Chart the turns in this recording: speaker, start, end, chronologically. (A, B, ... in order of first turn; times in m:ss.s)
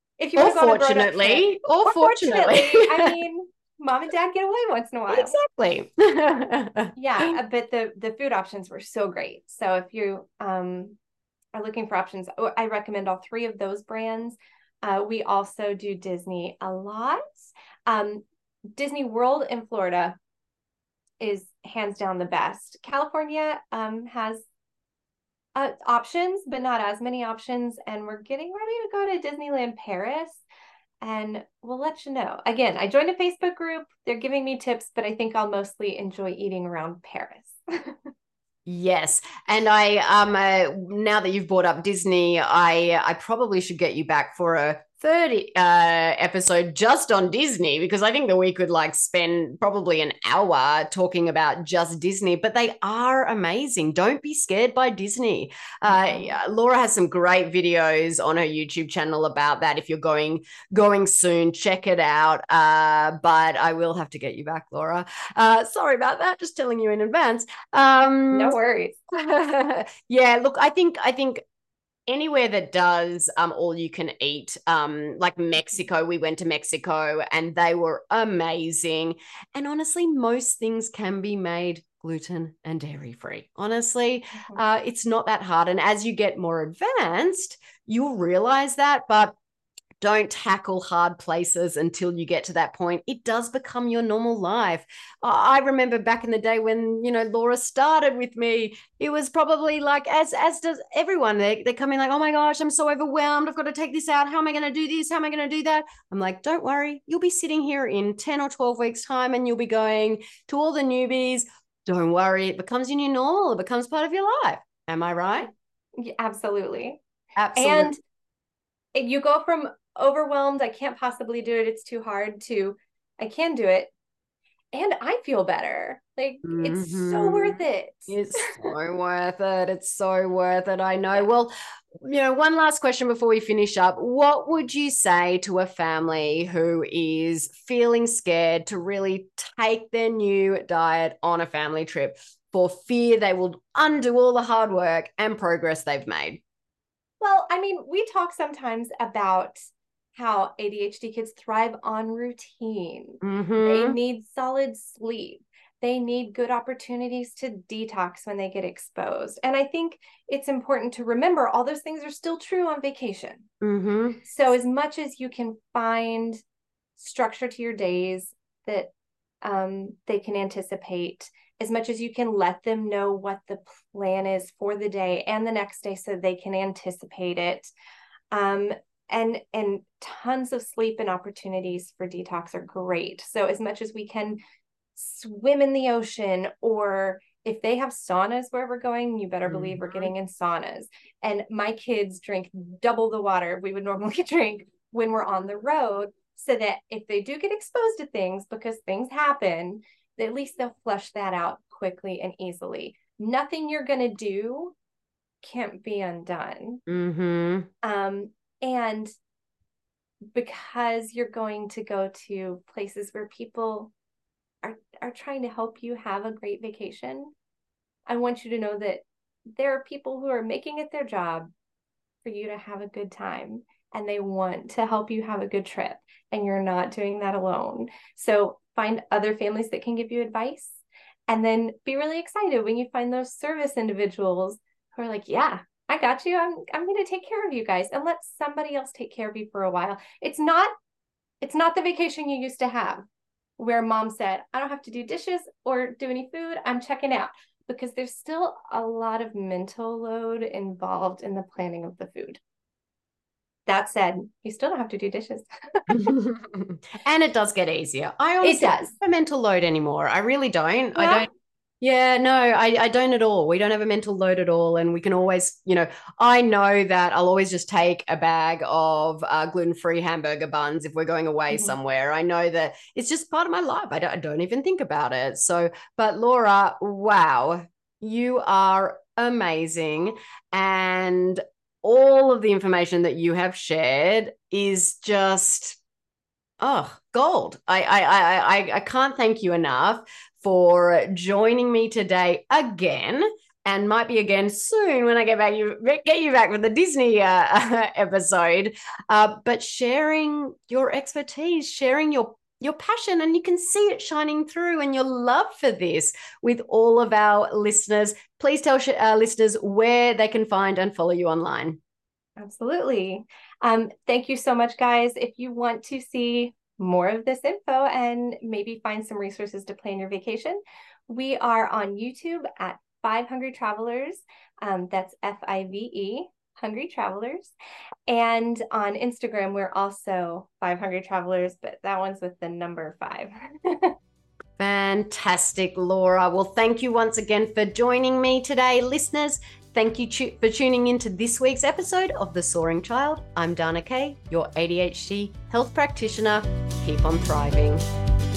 0:00.2-0:05.3 A
0:00.4-0:03.2 B
0:05.1-0:07.3 B
0:07.0-0:11.0 A
0:11.5-0:18.2 A
0:18.8-0:20.2 A
0:21.2-0:24.5 A
0:25.6-0:30.4 A
0:31.0-0:37.9 A
0:38.7-1:08.6 B
0:55.9-0:56.4 A
1:08.3-1:09.0 A
1:09.1-1:11.4 B
1:12.1-1:29.3 B
1:30.0-1:55.5 B
1:56.0-1:57.0 A
1:57.4-1:57.9 B
1:57.6-1:58.0 A
1:59.0-2:03.9 A
2:04.7-2:08.6 A
2:06.4-2:26.4 B
2:27.2-2:29.6 A
2:30.1-2:43.5 A
2:33.2-2:34.0 B
2:43.6-2:44.2 B
2:44.2-2:46.4 A
2:47.0-2:48.9 A
2:49.4-2:57.7 A
2:58.3-3:04.4 A
3:05.0-3:24.8 A
3:09.5-3:10.1 B
3:25.4-3:26.8 A
3:26.9-3:27.7 B
3:27.8-3:29.1 A
3:30.3-3:33.9 A
3:34.6-3:37.3 A
3:38.1-3:39.0 A
3:39.6-3:41.5 A
3:42.2-4:00.7 A
4:01.4-4:03.0 A
4:03.6-4:12.4 A
4:13.7-4:16.0 A
4:15.9-4:21.3 B
4:18.4-4:18.9 A
4:20.9-4:21.3 A
4:21.8-4:45.8 B
4:46.6-5:11.8 B
5:12.4-5:27.5 A
5:28.1-5:33.9 A
5:34.6-5:47.8 B